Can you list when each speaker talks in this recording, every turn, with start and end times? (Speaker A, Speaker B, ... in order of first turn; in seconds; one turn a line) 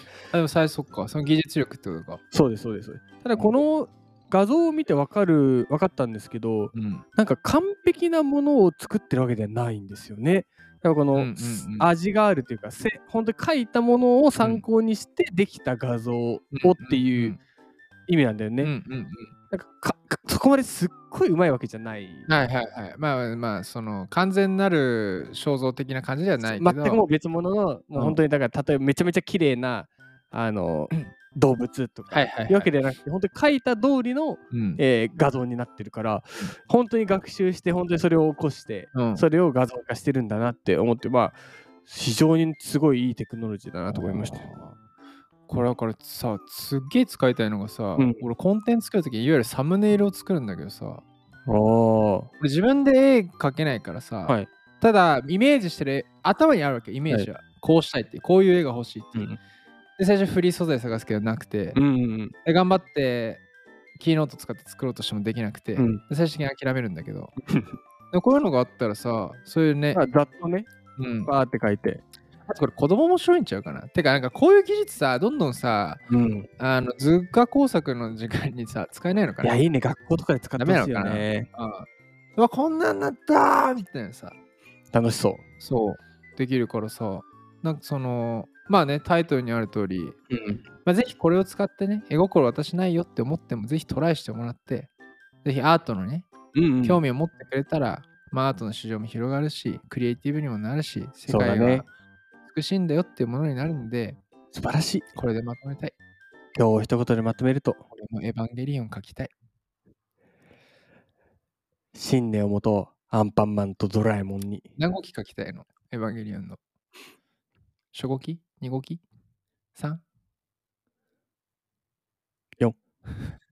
Speaker A: 0.3-2.2
Speaker B: 2.3-17.4
Speaker A: 6.7-7.0
Speaker A: 11.1-11.9
Speaker A: 14.4-14.7
Speaker A: 16.5-17.4
Speaker B: 18.1-18.7
Speaker A: 18.6-19.3
Speaker B: 19.5-22.3
Speaker A: 22.3-27.1
Speaker B: 26.4-44.5
Speaker A: 27.9-28.2
Speaker A: 32.1-32.7
Speaker A: 34.5-34.8
Speaker A: 39.0-39.2
Speaker A: 43.9-44.8
Speaker A: 45.5-51.0
Speaker B: 48.0-48.2
Speaker B: 51.5-52.3
Speaker A: 52.4-59.4
Speaker A: 60.0-61.8
Speaker B: 61.8-62.3
Speaker A: 62.5-63.4
Speaker A: 64.0-67.3
Speaker B: 67.5-67.8
Speaker A: 68.1-70.0
Speaker B: 69.9-70.7
Speaker A: 71.0-71.3
Speaker B: 71.2-72.0
Speaker A: 72.5-76.0
Speaker B: 76.1-76.5
Speaker A: 76.6-79.6
Speaker B: 79.4-81.5
Speaker A: 80.6-84.4
Speaker B: 84.9-85.4
Speaker A: 85.6-90.2
Speaker B: 90.3-90.6
Speaker A: 90.8-94.9
Speaker A: 95.4-96.3
Speaker B: 96.5-97.0
Speaker A: 96.8-101.9
Speaker B: 101.3-101.9
Speaker A: 102.5-104.2
Speaker B: 104.5-105.0
Speaker A: 105.1-106.0
Speaker B: 106.5-107.8
Speaker A: 107.9-109.3
Speaker B: 111.9-114.7
Speaker A: 114.8-116.6
Speaker A: 117.9-119.0
Speaker A: 119.8-120.0